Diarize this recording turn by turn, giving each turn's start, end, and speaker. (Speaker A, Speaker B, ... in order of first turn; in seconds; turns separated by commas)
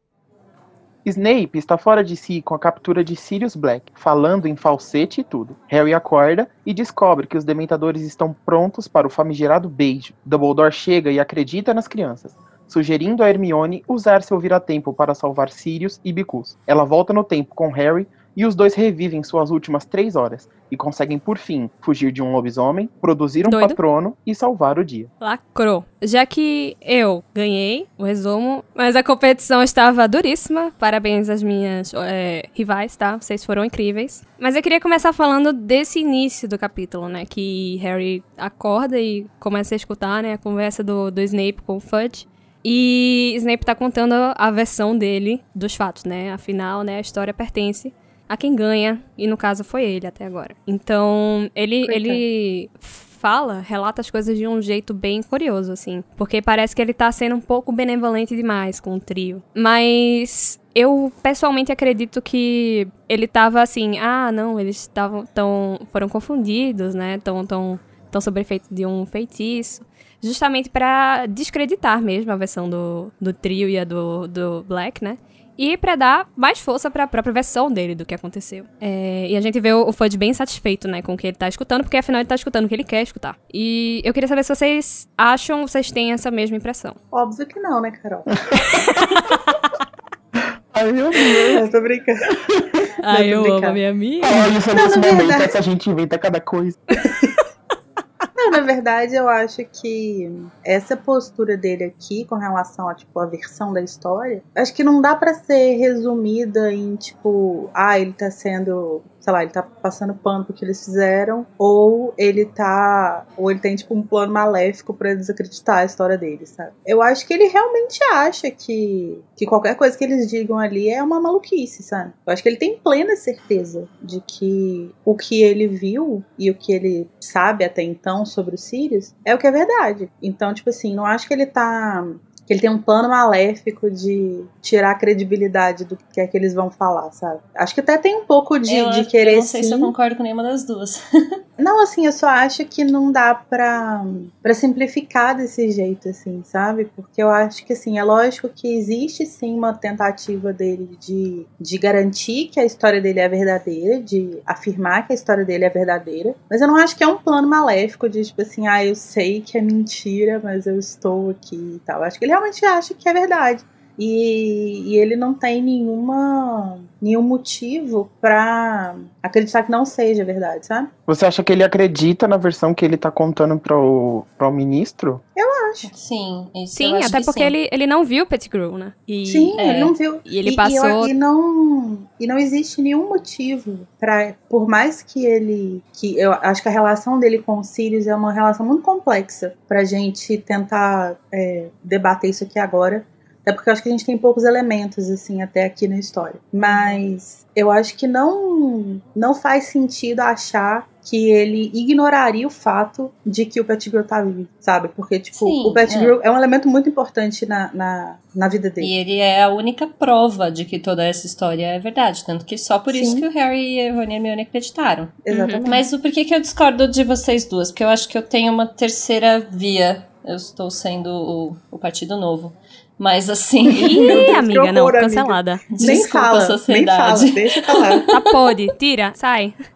Speaker A: 1.0-25.1, Speaker B: 23.4-23.8, Speaker B: 25.2-87.0, Speaker C: 51.8-52.2, Speaker D: 87.1-88.4, Speaker A: 88.5-88.8, Speaker B: 88.8-89.4, Speaker A: 90.4-91.6, Speaker D: 91.5-92.4, Speaker B: 93.0-94.5, Speaker D: 93.1-93.8, Speaker A: 94.2-97.0, Speaker D: 94.7-95.5, Speaker D: 98.3-139.9, Speaker C: 138.7-141.4, Speaker D: 141.6-170.9, Speaker A: 171.1-175.2, Speaker D: 175.3-175.9, Speaker C: 175.8-177.5, Speaker B: 176.7-179.6, Speaker D: 179.2-208.9, Speaker C: 179.6-179.9, Speaker B: 180.2-181.1, Speaker C: 196.6-197.0, Speaker C: 205.3-206.2, Speaker C: 208.8-224.3, Speaker D: 212.9-213.2, Speaker D: 215.2-215.8, Speaker B: 215.3-215.6, Speaker B: 223.7-225.7, Speaker D: 223.8-228.0, Speaker C: 225.8-228.1, Speaker B: 228.1-229.5